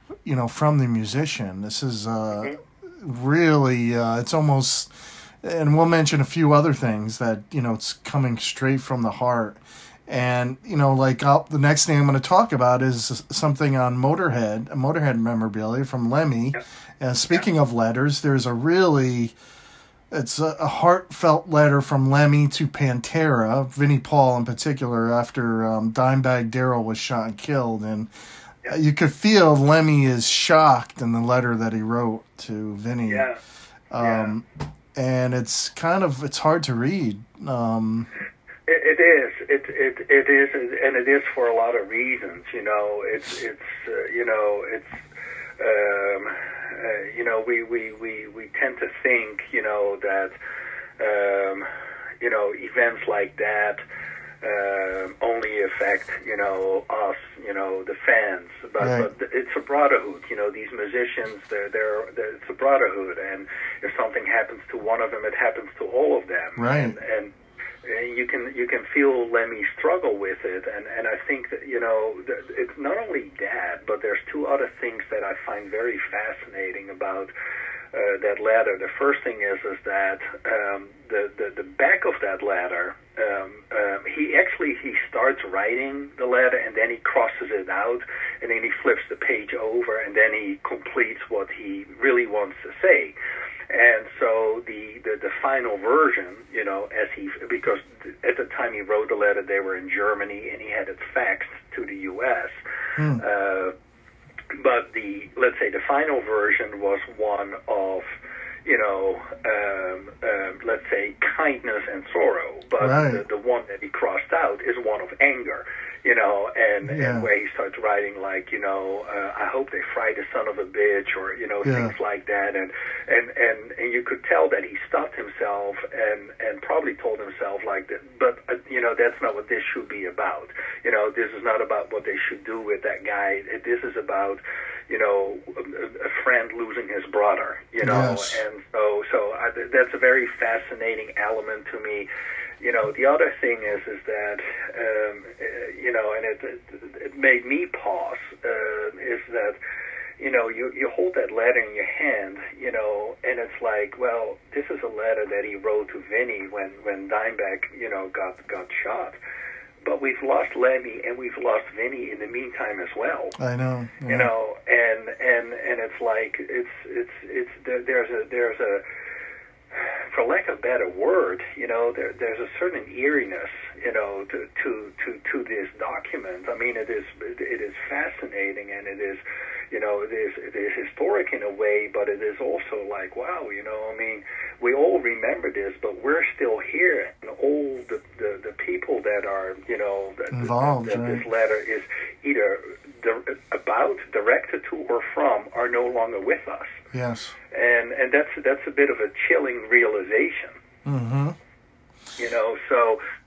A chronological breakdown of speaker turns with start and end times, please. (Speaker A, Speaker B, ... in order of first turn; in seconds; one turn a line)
Speaker A: 0.2-4.9
Speaker A: 5.4-19.4
Speaker A: 20.1-28.1
Speaker A: 28.7-33.3
Speaker B: 33.1-33.4
Speaker A: 33.9-38.1
Speaker B: 34.0-34.3
Speaker B: 38.7-45.0
Speaker B: 45.6-50.3
Speaker B: 51.0-51.7
Speaker B: 52.2-53.8
Speaker B: 54.4-67.3
Speaker A: 58.8-59.1
Speaker A: 66.6-67.0
Speaker B: 67.8-77.3
Speaker B: 77.9-93.2
Speaker B: 93.7-102.6
Speaker A: 103.0-103.2
Speaker B: 103.2-103.7
Speaker B: 104.5-108.1
Speaker B: 108.7-142.1
Speaker A: 112.8-113.2
Speaker A: 116.8-117.3
Speaker A: 121.6-121.9
Speaker A: 137.8-138.4
Speaker B: 142.6-149.6
Speaker B: 150.2-159.2
Speaker B: 159.8-163.4
Speaker A: 163.4-164.3
Speaker B: 164.1-168.8
Speaker B: 169.7-196.8
Speaker A: 190.3-191.3
Speaker A: 196.9-197.3
Speaker B: 197.5-200.6
Speaker A: 200.8-201.4
Speaker B: 202.2-203.0